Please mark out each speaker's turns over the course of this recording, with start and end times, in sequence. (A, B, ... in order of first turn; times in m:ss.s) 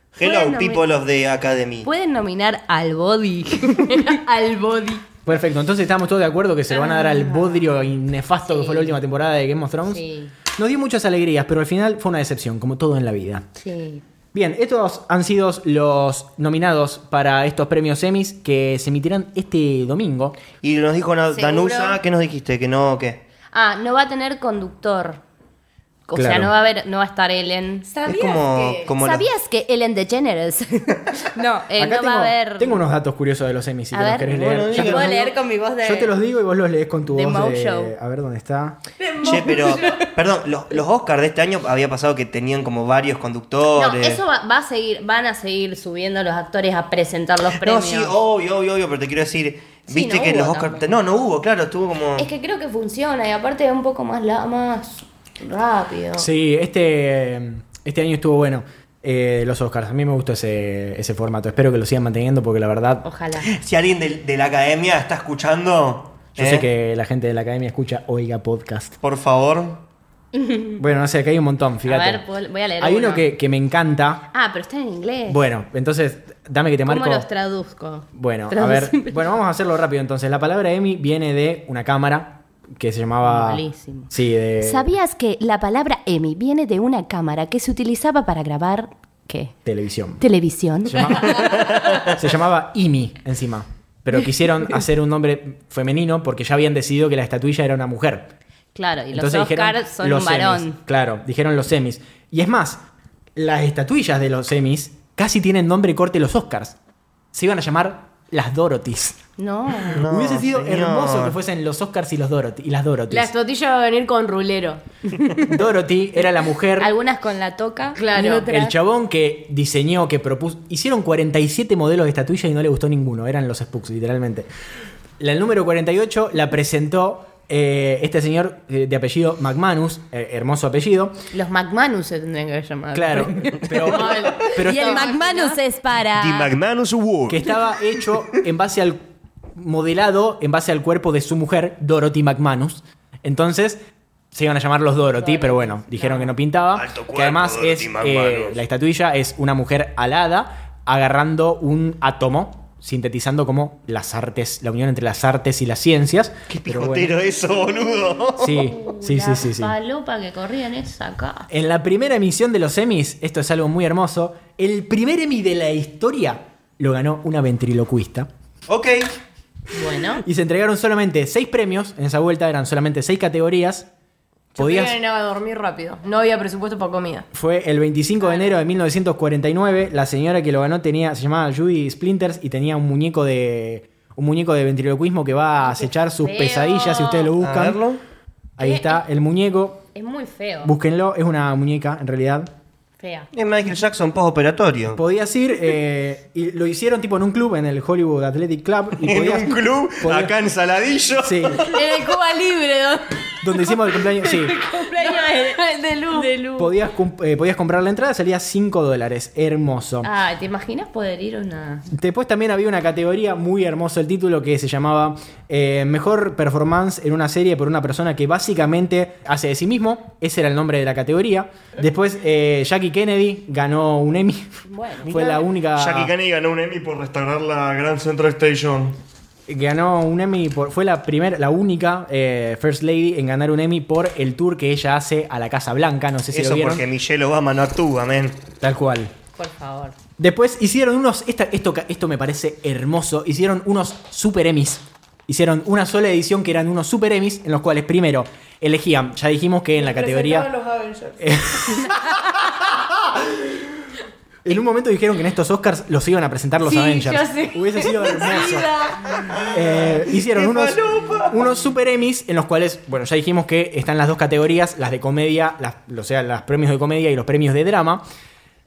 0:00.2-0:01.9 A
0:00.2-0:00.8 B
0:01.8-0:04.0 B
0:03.8-0:05.0 C
0:05.3-0:10.0 D
0:06.7-0:07.7 B
0:08.5-0:09.0 B
0:09.9-0:10.3 B
0:10.6-0:13.5 D
0:13.6-0:14.0 B
0:14.3-0:20.4 D
0:20.6-0:23.2 A
0:21.3-0:22.0 B
0:23.5-0:25.2 B
0:26.1-0:27.9 B
0:26.2-0:26.5 D
0:27.9-0:28.9 C
0:28.1-0:29.3 A
0:29.0-0:32.8 B
0:31.8-0:35.3 D
0:33.9-0:36.1 B
0:34.3-0:35.3 A
0:35.8-0:38.8 D
0:37.1-0:37.9 B
0:39.0-0:40.0 C
0:39.2-0:44.2 A
0:39.2-0:40.0 B
0:43.8-0:48.2 B
0:47.5-0:52.3 A
0:49.9-0:50.9 B
0:52.2-0:56.3 B
0:56.2-1:03.0 D
1:03.0-1:03.5 B
1:03.4-1:06.7 A
1:06.4-1:09.0 D
1:09.0-1:09.8 A
1:10.3-1:10.8 B
1:10.8-1:12.2 D
1:11.9-1:13.3 B
1:12.8-1:14.2 D
1:14.3-1:15.4 B
1:15.3-1:17.3 D
1:16.9-1:19.4 B
1:18.1-1:24.9 D
1:23.2-1:24.1 B
1:24.6-1:29.5 B
1:29.6-1:30.2 D
1:30.2-1:31.7 B
1:30.8-1:38.3 D
1:31.4-1:32.0 A
1:38.8-1:40.8 B
1:39.1-1:42.8 D
1:43.4-1:46.8 D
1:47.3-1:49.2 D
1:49.4-1:50.0 B
1:49.9-1:51.4 A
1:50.0-1:53.3 D
1:53.1-1:54.8 C
1:55.4-1:56.9 D
1:56.8-1:58.7 B
1:58.0-1:58.7 C
1:58.1-2:04.5 D
2:05.2-2:11.2 D
2:11.3-2:16.5 B
2:12.9-2:15.1 D
2:13.7-2:15.6 C
2:16.0-2:17.8 A
2:17.3-2:19.0 D
2:19.6-2:23.8 D
2:24.3-2:37.2 D
2:25.0-2:26.3 B
2:26.7-2:28.6 A
2:36.5-2:38.7 A
2:38.4-2:39.7 D
2:38.4-2:41.5 B
2:41.5-2:48.3 D
2:48.7-2:49.1 A
2:49.7-2:50.2 B
2:50.2-2:53.9 D
2:54.6-2:57.3 C
2:54.6-2:55.0 D
2:57.3-3:07.8 D
3:05.6-3:07.4 B
3:07.4-3:08.0 A
3:08.6-3:09.9 D
3:08.6-3:09.0 B
3:10.0-3:10.7 B
3:10.6-3:12.5 D
3:13.0-3:13.3 B
3:13.3-3:15.0 A
3:15.0-3:20.3 D
3:19.0-3:21.8 A
3:21.2-3:21.7 D
3:21.7-3:23.8 C
3:23.4-3:24.6 D
3:24.2-3:25.6 B
3:24.4-3:26.4 C
3:26.1-3:26.7 B
3:26.6-3:30.1 D
3:30.0-3:31.9 B
3:31.9-3:46.1 D
3:44.6-3:45.1 B
3:45.1-3:49.0 A
3:49.5-3:56.8 D
3:56.3-3:58.5 A
3:58.6-3:59.1 D
3:59.4-4:00.0 B
4:00.2-4:10.5 D
4:09.8-4:12.4 C
4:11.2-4:13.7 D
4:14.4-4:18.7 D
4:16.6-4:19.2 C
4:19.2-4:21.4 A
4:19.5-4:28.0 D